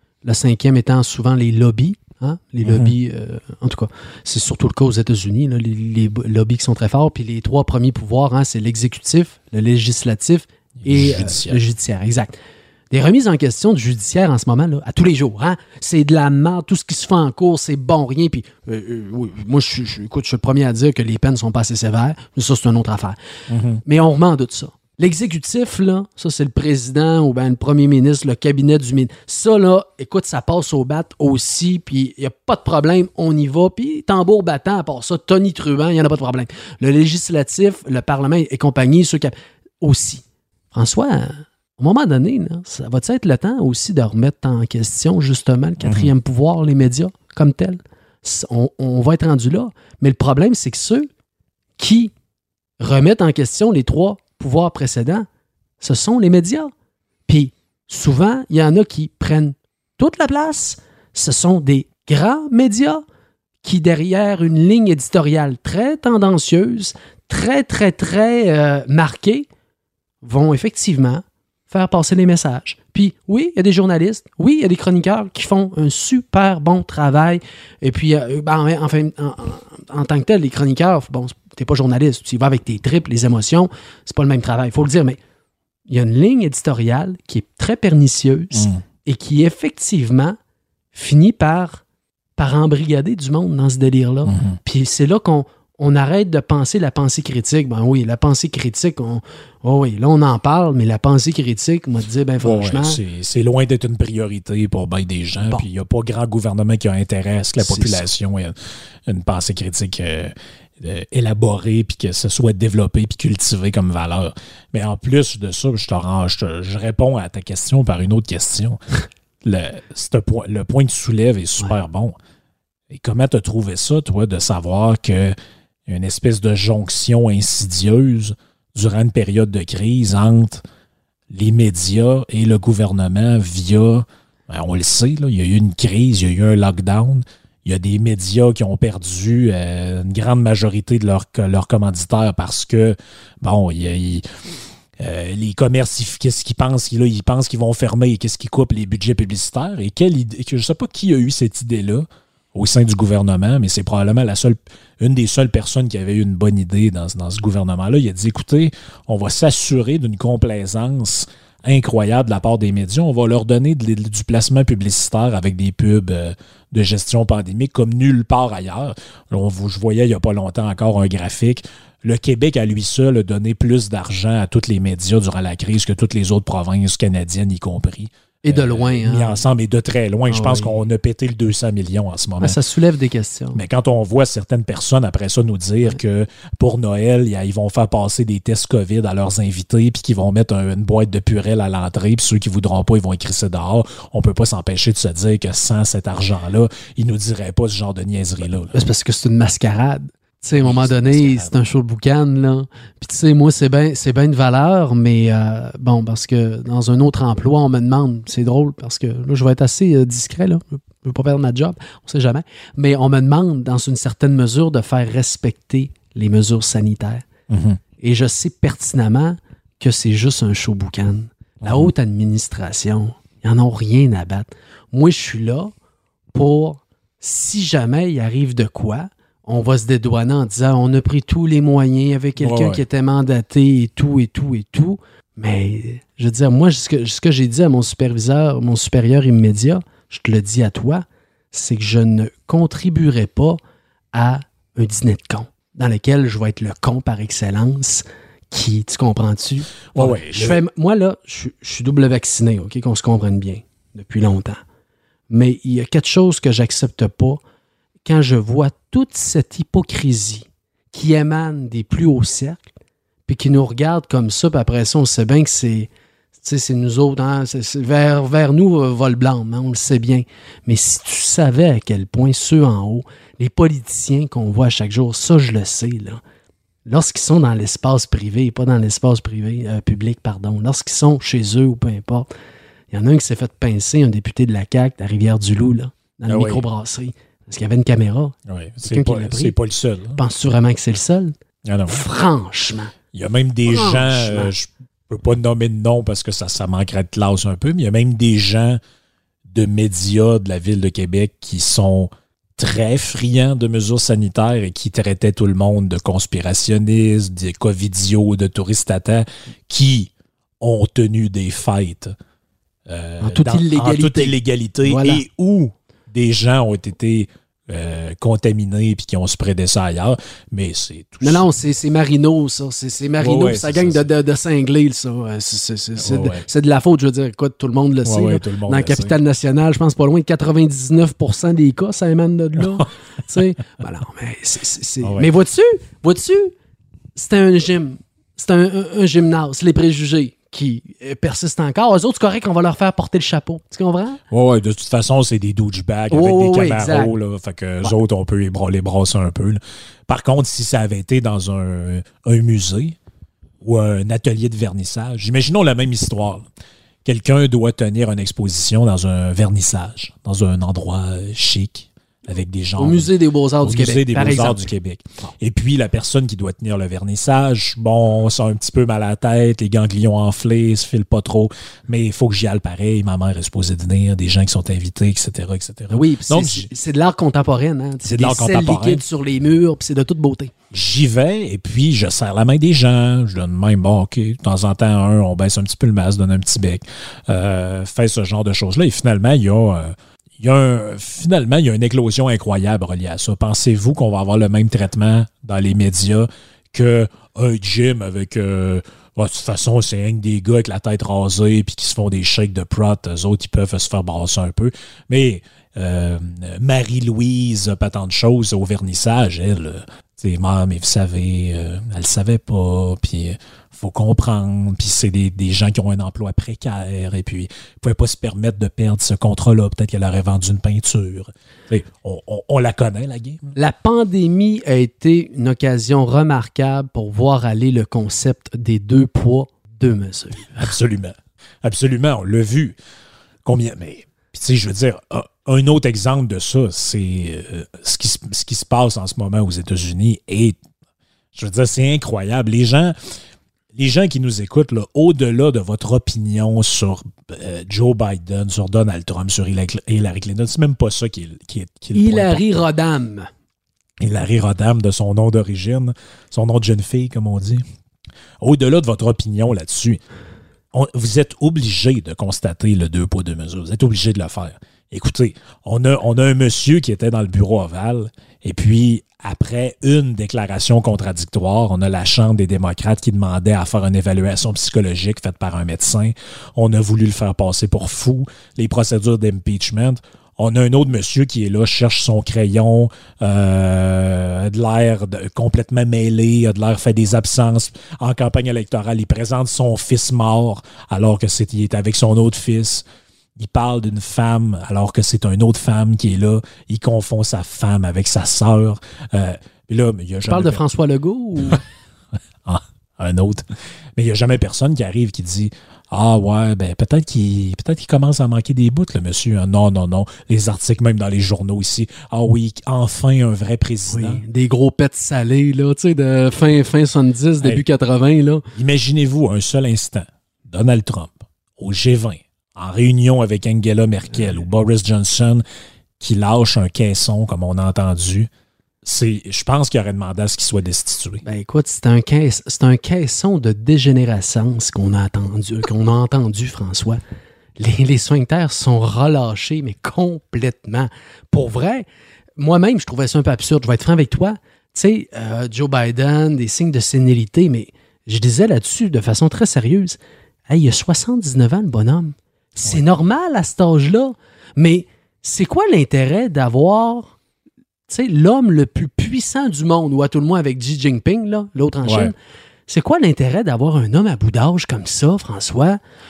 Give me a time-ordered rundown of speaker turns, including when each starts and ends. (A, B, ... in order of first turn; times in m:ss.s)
0:00.2-0:12.3 A
0:02.6-0:02.9 B
0:10.8-0:11.6 B
0:12.9-0:23.2 A
0:23.5-0:23.8 B
0:23.8-0:51.1 A
0:45.8-0:46.1 B
0:51.8-0:52.1 A
0:52.8-0:55.2 A
0:55.8-0:56.7 A
0:57.3-1:03.0 A
1:03.6-1:09.5 A
1:10.2-1:25.2 A
1:25.9-1:30.4 A
1:28.5-1:28.8 B
1:30.9-1:31.8 A
1:32.4-1:43.0 A
1:34.2-1:34.6 B
1:42.4-1:48.5 B
1:47.6-1:48.1 A
1:49.1-1:58.8 B
1:59.4-2:02.2 B
2:02.9-2:05.3 B
2:05.8-2:10.6 B
2:11.3-2:24.2 B
2:25.0-3:02.6 B
2:58.4-2:59.4 A
3:00.3-3:00.7 A
3:02.4-3:03.6 A
3:03.5-3:18.8 B
3:18.7-3:37.2 A
3:20.6-3:21.5 B
3:37.5-3:37.8 B
3:38.0-3:45.7 A
3:41.6-3:41.9 B
3:46.3-4:03.6 A
3:52.4-3:52.8 B
4:04.1-4:14.6 A
4:09.9-4:10.6 B
4:15.3-4:17.4 A
4:18.0-4:22.7 A
4:23.3-4:36.2 A
4:36.8-4:42.3 A
4:42.9-4:49.6 A
4:46.3-4:46.6 B
4:48.5-4:50.2 B
4:50.2-4:51.3 A
4:51.6-4:52.0 B
4:51.9-4:52.9 A
4:53.1-4:58.8 B
4:53.6-4:54.5 A
4:59.5-5:12.1 B
5:12.9-5:21.4 B
5:13.2-5:15.2 A
5:21.2-5:36.5 A
5:23.2-5:24.0 B
5:26.0-5:26.4 B
5:28.0-5:29.1 B
5:35.0-5:35.3 B
5:37.1-5:44.2 A
5:44.3-5:53.0 B
5:46.1-5:47.2 A
5:53.6-5:56.4 B
5:57.0-6:03.1 B
6:02.8-6:04.7 A
6:03.6-6:16.7 B
6:15.9-6:20.5 A
6:18.0-6:19.0 B
6:20.7-7:03.5 B
7:03.5-7:10.7 A
7:10.5-7:12.8 B
7:13.4-7:20.6 B
7:21.3-7:22.9 B
7:23.7-7:32.7 B
7:31.9-7:33.3 A
7:34.0-7:37.6 B
7:38.4-7:40.0 B
7:40.7-8:12.8 B
8:13.4-8:20.6 B
8:20.3-8:21.6 A
8:22.4-8:23.4 B
8:24.0-8:34.2 B
8:33.9-8:38.4 A
8:38.5-8:45.4 B
8:46.0-8:48.3 B
8:48.8-8:51.2 B
8:51.2-8:57.0 A
8:57.6-9:01.8 A
9:02.4-9:17.2 A
9:17.9-9:22.2 A
9:21.8-9:22.1 B
9:22.7-9:25.8 A